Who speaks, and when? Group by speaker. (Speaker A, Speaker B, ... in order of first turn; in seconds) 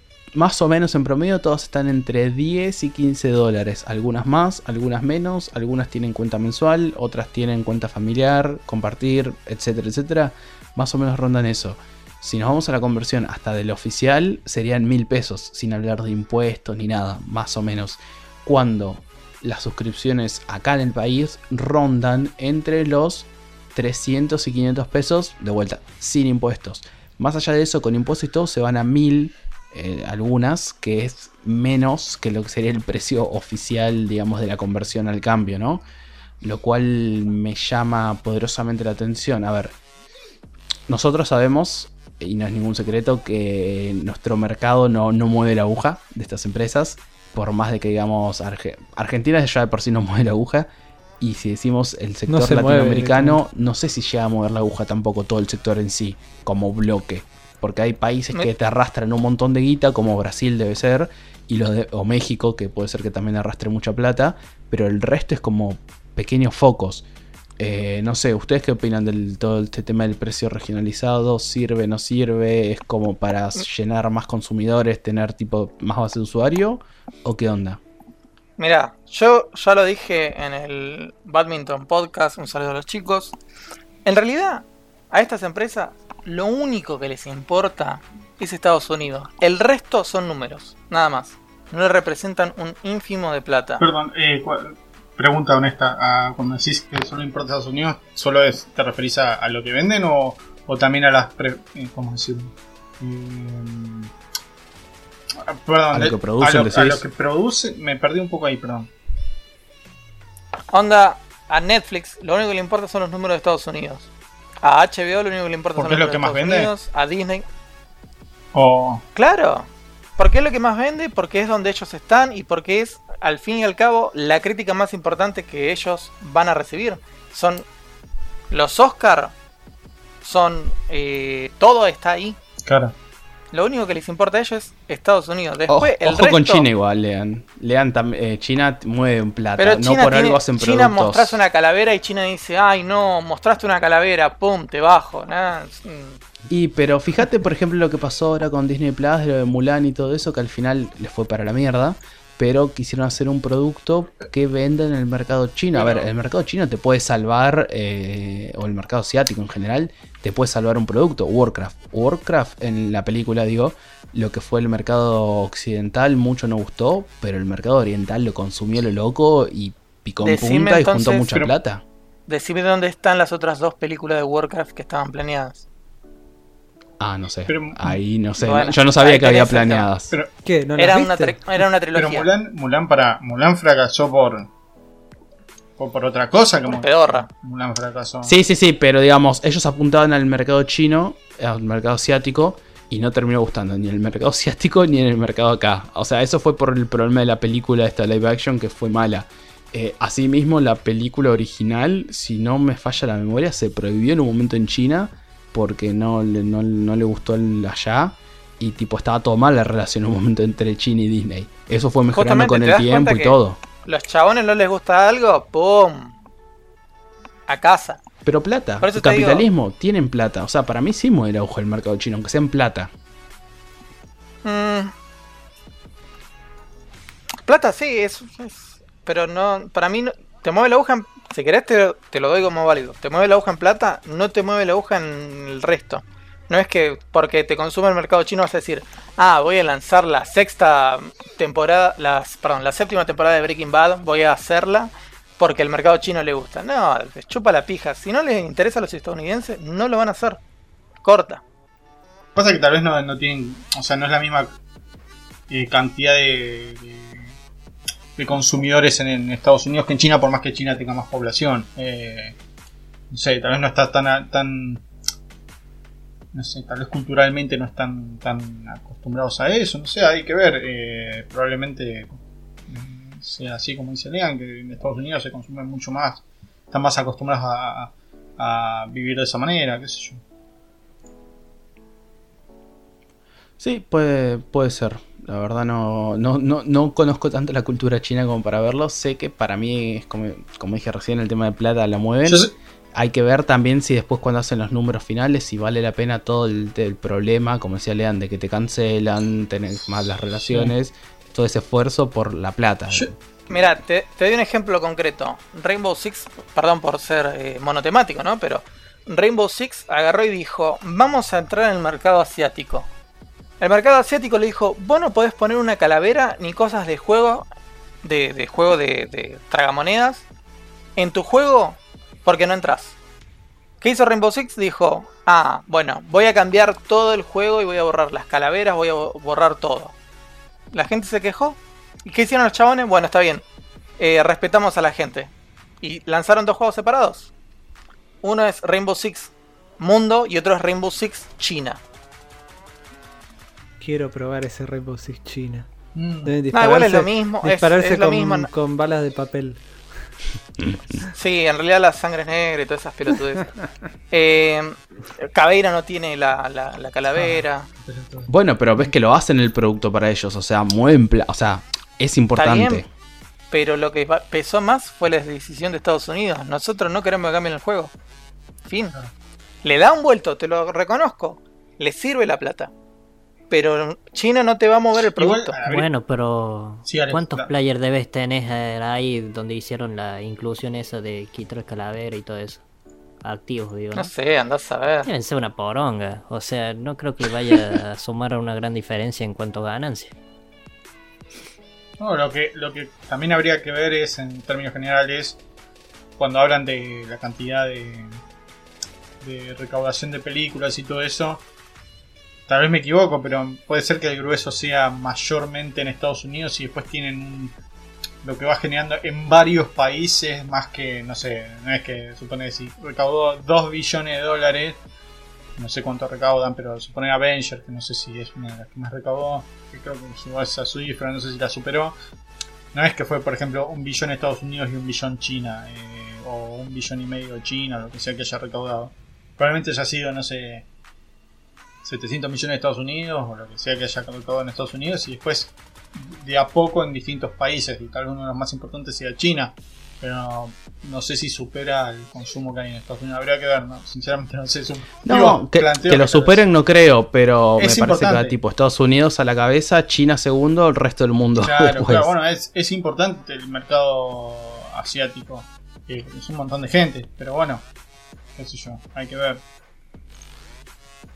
Speaker A: 0.3-35.8, 36.4-39.7, 40.9-50.7, 51.2-67.0, 67.6-77.8, 105.9-107.0, 135.7-141.4, 146.5-171.8, 177.0-180.1, 188.2-213.6, 218.2-222.9, 283.6-303.1, 358.3-362.9, 445.0-452.1
Speaker B: 52.3-53.4, 180.4-181.4, 343.8-345.7, 346.2-349.7
Speaker C: 78.6-83.3, 84.0-93.8, 110.7-114.1, 114.6-117.4, 119.1-127.6, 128.5-129.3, 130.2-132.4, 133.5-136.7, 139.6-146.2, 155.8-156.1, 170.2-171.3, 172.3-175.6, 178.4-179.9, 180.8-182.3, 186.7-187.2, 212.1-216.2, 217.5-218.0, 218.8-219.4, 224.4-224.9, 227.4-250.4, 251.0-251.4, 303.5-312.9, 313.6-317.5, 318.0-320.2, 320.9-323.0, 323.8-329.9, 330.7-333.4, 334.0-337.3, 338.2-341.8, 346.5-348.5, 351.1-353.5, 354.1-357.7, 362.4-362.8, 363.5-367.9, 368.6-368.9, 369.6-372.7, 373.5-375.6, 383.9-385.1
Speaker D: 93.8-104.1, 105.5-108.9, 115.8-116.7, 118.5-119.0, 132.7-132.9, 177.5-178.0, 181.9-184.5, 185.8-188.3, 252.3-254.5, 255.5-257.3, 258.2-262.4, 263.1-264.8, 266.3-280.2, 292.2-292.5, 345.9-346.4, 357.1-358.3, 375.0-375.9, 376.8-377.5, 392.0-395.4, 396.2-398.2, 399.2-401.4, 402.5-407.5, 408.2-414.8, 415.6-421.9, 422.7-430.7, 431.8-446.4, 447.6-448.3, 451.4-457.6, 458.4-459.4
Speaker E: 375.6-382.6, 383.2-384.1, 385.0-390.1